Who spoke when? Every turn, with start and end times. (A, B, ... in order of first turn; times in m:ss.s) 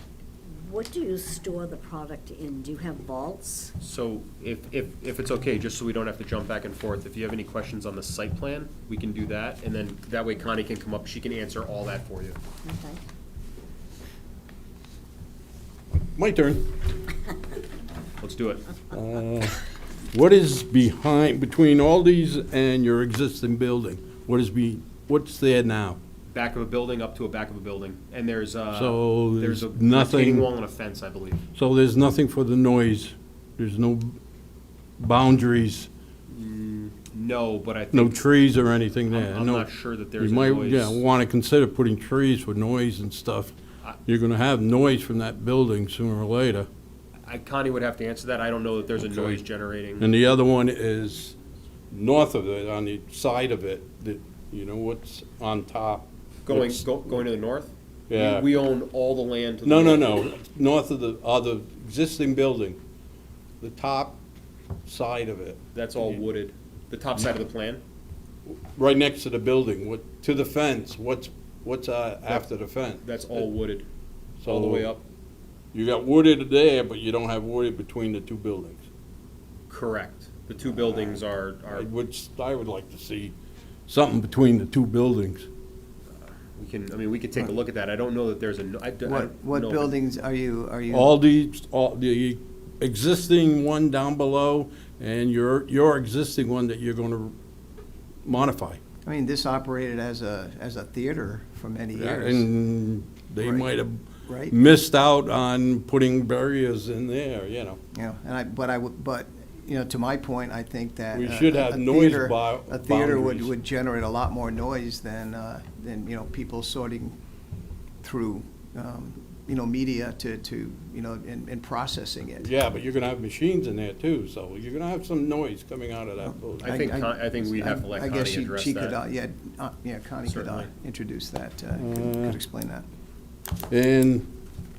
0:00.5-0:03.7 A
0:03.8-0:12.4 B
0:12.6-0:13.0 A
0:16.2-0:16.8 C
0:18.2-0:18.7 B
0:18.9-0:26.0 C
0:26.3-0:31.4 B
0:28.7-0:30.5 C
0:31.6-0:34.2 C
0:35.0-0:35.9 C
0:36.3-0:38.2 B
0:37.9-0:43.5 C
0:39.0-0:41.0 B
0:44.0-0:46.7 C
0:47.2-0:50.1 B
0:49.0-0:49.4 C
0:50.0-0:51.4 C
0:51.9-0:56.8 C
0:56.5-1:00.2 B
0:58.1-0:58.5 C
0:59.6-1:02.8 C
1:03.6-1:04.2 C
1:04.8-1:05.6 C
1:05.7-1:07.8 B
1:08.5-1:13.1 C
1:13.0-1:13.9 B
1:14.4-1:15.0 C
1:14.4-1:15.0 B
1:15.7-1:18.8 C
1:19.7-1:21.9 B
1:21.7-1:23.4 C
1:23.9-1:25.5 C
1:26.2-1:29.9 B
1:29.0-1:31.1 D
1:30.9-1:37.3 C
1:38.2-1:38.8 C
1:39.0-1:42.5 D
1:42.0-1:47.8 C
1:43.4-1:43.7 D
1:44.3-1:44.6 D
1:47.9-1:57.2 D
1:51.1-1:53.5 C
1:58.0-2:02.5 D
2:02.4-2:06.8 C
2:06.3-2:12.8 D
2:06.6-2:09.0 B
2:10.3-2:10.7 B
2:11.8-2:12.4 C
2:13.7-2:14.3 C